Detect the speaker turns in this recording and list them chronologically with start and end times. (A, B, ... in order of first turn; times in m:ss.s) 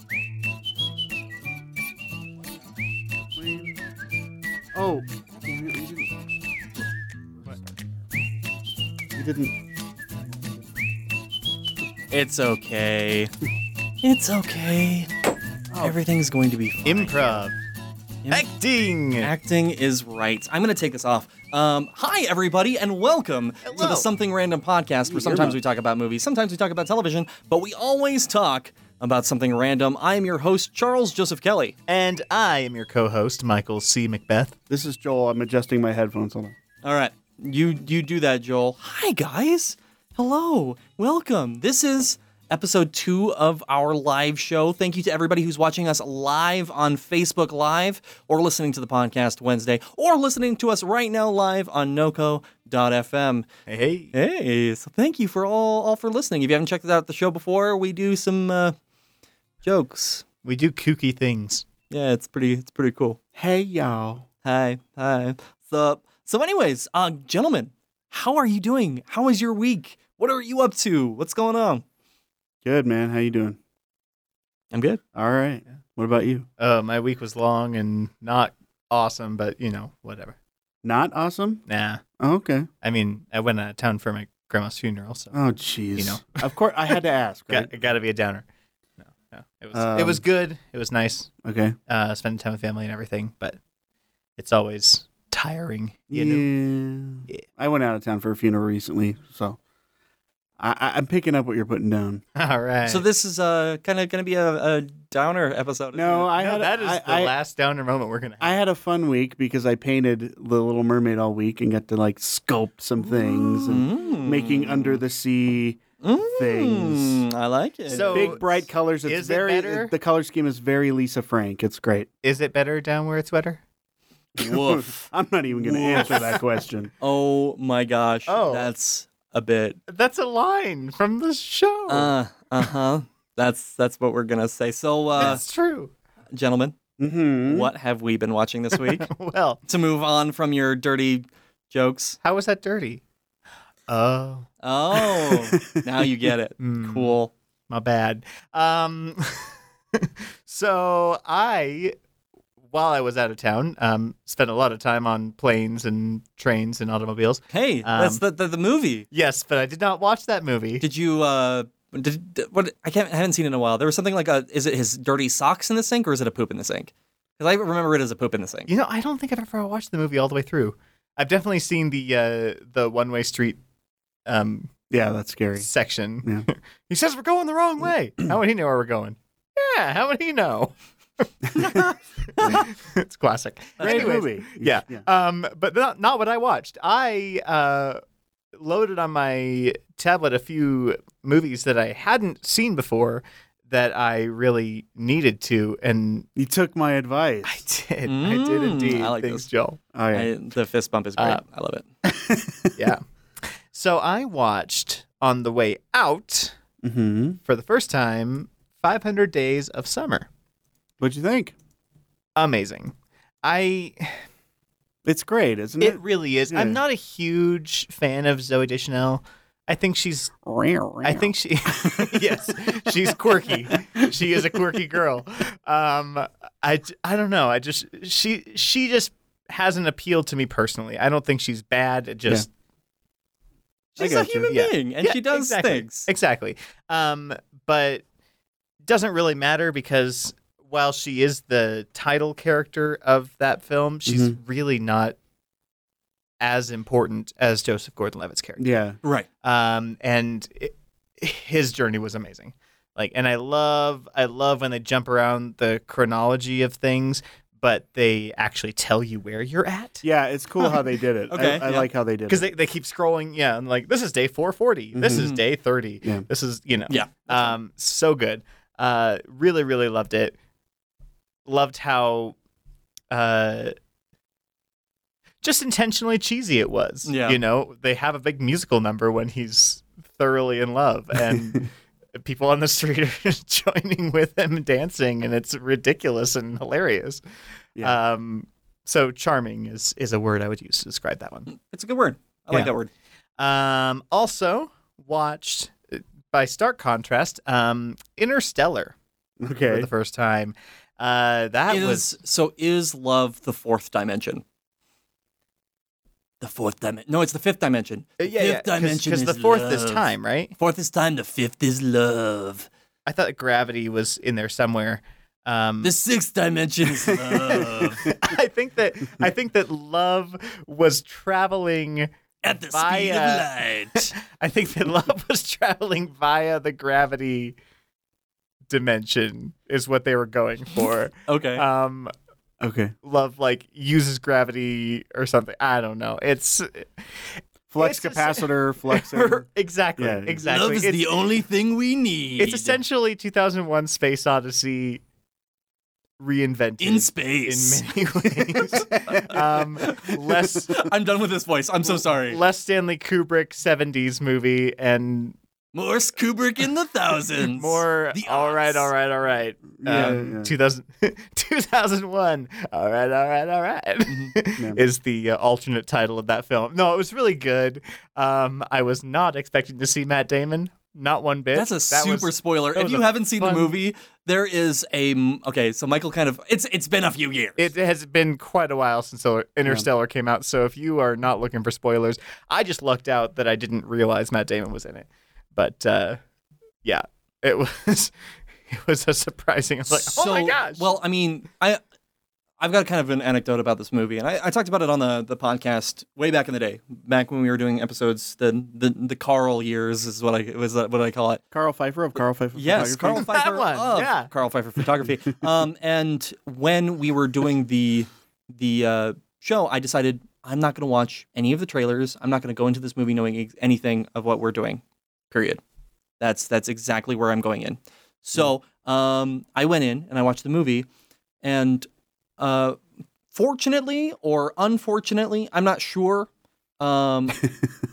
0:03.2-0:03.8 A
0:04.7-0:06.1 A
0:09.2-0:09.6 A
0:12.1-0:13.3 B
0:14.0-0:15.1 B
0:15.8-0:17.5 B
0:16.8-0:17.6 C
0:18.3-0:19.3 C
0:19.2-0:31.7 B
0:23.6-0:24.1 C
0:25.1-0:25.6 A
0:31.9-0:34.6 C
0:34.7-0:36.6 A
0:36.8-0:53.5 B
0:53.7-0:54.1 C
0:54.1-0:58.8 B
0:59.6-1:00.2 B
1:00.4-1:01.7 C
1:01.9-1:03.2 B
1:03.4-1:04.3 A
1:04.4-1:11.8 B
1:12.6-1:13.6 A
1:14.7-1:15.0 B
1:15.2-1:16.5 A
1:16.6-1:20.4 C
1:20.8-1:21.6 A
1:21.7-1:22.0 C
1:22.2-1:22.7 A
1:22.8-1:25.3 C
1:25.3-1:27.7 A
1:26.0-1:27.0 C
1:27.5-1:28.5 C
1:29.0-1:31.3 C
1:29.7-1:30.2 A
1:31.4-1:31.8 A
1:31.9-1:33.6 C
1:34.4-1:36.5 C
1:36.1-1:39.6 A
1:40.6-1:42.2 A
1:42.4-1:43.0 C
1:42.9-1:46.3 B
1:45.9-1:47.3 A
1:46.4-1:48.6 C
1:48.4-1:55.8 A
1:53.6-1:55.0 B
1:56.0-1:58.4 B
1:56.4-1:57.2 A
1:57.9-1:59.9 C
1:57.9-2:02.1 A
2:02.2-2:03.6 C
2:04.4-2:05.1 B
2:04.4-2:06.9 A
2:05.6-2:06.4 B
2:07.0-2:09.8 B
2:08.3-2:08.7 C
2:09.9-2:12.1 C
2:11.9-2:15.4 B
2:15.2-2:15.9 C
2:16.3-2:16.8 B
2:17.0-2:17.7 A
2:17.4-2:19.1 B
2:18.8-2:19.6 C
2:19.7-2:22.2 B
2:22.2-2:23.0 C
2:23.9-2:24.5 C
2:24.6-2:27.3 B
2:26.6-2:27.2 C
2:27.7-2:32.0 C
2:32.7-2:38.2 C
2:37.5-2:39.1 B
2:39.1-2:40.8 C
2:40.8-2:48.7 B
2:48.7-2:53.6 C
2:54.3-2:54.7 C
2:54.9-2:55.7 A
2:55.6-3:08.0 C
3:02.4-3:02.7 A
3:03.8-3:04.1 B
3:03.8-3:05.1 A
3:08.5-3:16.3 C
3:16.4-3:17.6 A
3:17.4-3:19.8 C
3:18.1-3:19.5 B
3:19.9-3:20.3 A
3:20.1-3:21.9 B
3:21.2-3:21.4 C
3:22.0-3:22.8 A
3:22.8-3:23.0 C
3:23.7-3:26.6 C
3:26.8-3:27.4 A
3:27.5-3:30.3 C
3:31.0-3:31.6 A
3:32.4-3:34.2 C
3:35.1-3:36.8 A
3:35.8-3:40.3 C
3:40.4-3:44.1 A
3:41.0-3:52.5 C
3:54.0-3:56.1 B
3:54.0-3:54.5 A
3:54.5-3:58.0 C
3:58.8-4:05.2 C
4:04.1-4:04.4 A
4:06.4-4:08.7 C
4:08.6-4:09.0 A
4:09.4-4:20.0 C
4:20.0-4:22.5 A
4:21.3-4:21.9 B
4:22.3-4:30.4 C
4:25.0-4:25.3 A
4:26.9-4:27.5 B
4:31.5-4:32.4 C
4:33.1-4:33.8 C
4:35.4-4:47.2 C
4:37.0-4:37.4 B
4:47.8-4:51.5 C
4:51.5-4:52.9 B
4:53.4-4:59.0 C
4:59.4-4:59.9 A
4:59.6-5:02.1 C
5:01.7-5:04.4 B
5:06.4-5:12.7 B
5:08.2-5:10.6 C
5:13.1-5:15.9 C
5:15.8-5:18.1 B
5:17.3-5:22.1 C
5:22.4-5:24.1 B
5:22.7-5:27.6 C
5:28.7-5:32.1 C
5:31.3-5:31.6 B
5:32.6-5:33.0 A
5:33.0-5:41.1 C
5:37.7-5:39.5 A
5:40.0-5:40.4 A
5:40.4-5:42.8 B
5:42.4-5:45.0 C
5:46.2-5:50.8 C
5:46.8-5:47.9 B
5:48.7-5:49.4 A
5:49.1-5:52.4 B
5:51.9-5:55.4 C
5:55.7-5:58.9 B
5:57.4-6:13.8 C
5:59.8-6:00.5 A
5:59.9-6:00.2 B
6:04.1-6:04.4 B
6:04.6-6:04.8 A
6:11.5-6:17.7 B
6:17.6-6:26.2 C
6:26.8-6:28.1 C
6:28.7-6:31.0 C
6:29.9-6:31.8 B
6:32.6-6:41.4 B
6:41.5-6:43.3 A
6:42.6-6:55.6 B
6:43.2-6:44.3 C
6:56.2-7:00.9 B
7:01.4-7:01.9 B
7:02.4-7:02.8 B
7:03.3-7:07.4 B